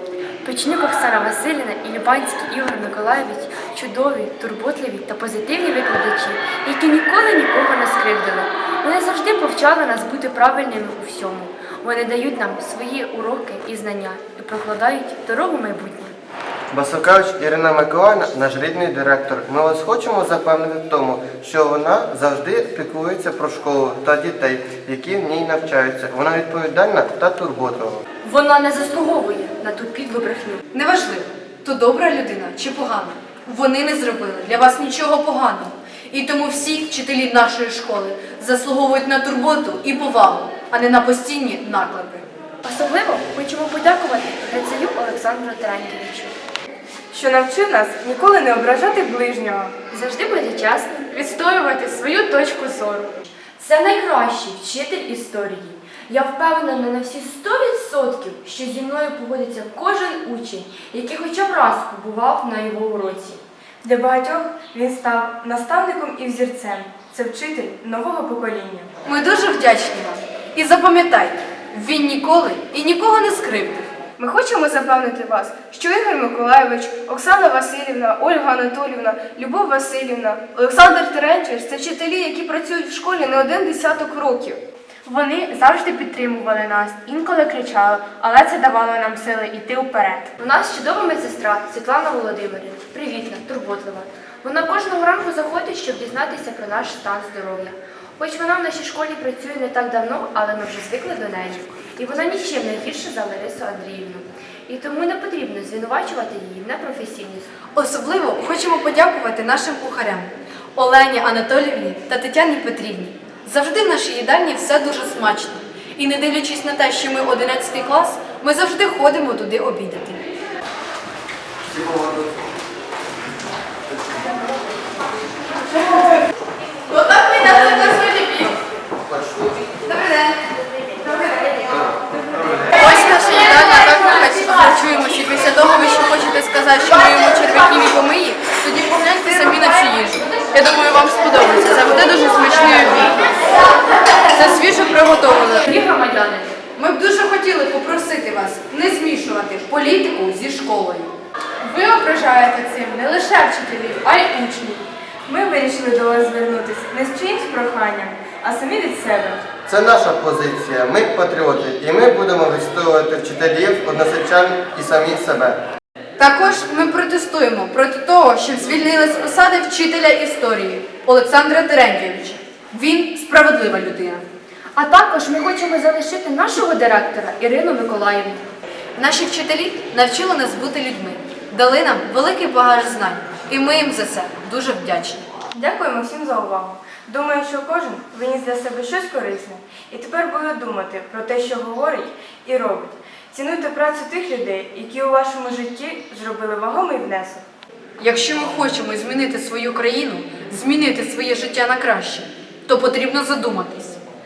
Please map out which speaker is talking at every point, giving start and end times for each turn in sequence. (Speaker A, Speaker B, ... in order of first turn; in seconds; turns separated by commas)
Speaker A: 0.4-16.1, Speaker B: 16.7-28.0, Speaker A: 28.2-30.6, Speaker C: 30.7-42.3, Speaker A: 42.6-46.3, Speaker D: 47.1-49.7, Speaker A: 49.9-63.4, Speaker D: 63.8-68.9, Speaker C: 69.0-73.9, Speaker E: 74.2-84.6, Speaker F: 85.0-90.3, Speaker A: 90.4-107.5, Speaker C: 107.7-120.2, Speaker B: 121.7-122.4, Speaker C: 126.9-128.6, Speaker B: 129.1-129.7, Speaker B: 131.7-132.7, Speaker C: 132.7-143.3, Speaker C: 144.3-145.7, Speaker A: 145.7-146.6, Speaker C: 146.7-151.1, Speaker F: 151.6-154.8, Speaker D: 155.2-159.4, Speaker B: 159.7-165.6, Speaker C: 166.2-174.2, Speaker A: 174.7-178.4, Speaker C: 178.9-185.3, Speaker D: 185.5-197.4, Speaker C: 198.0-204.0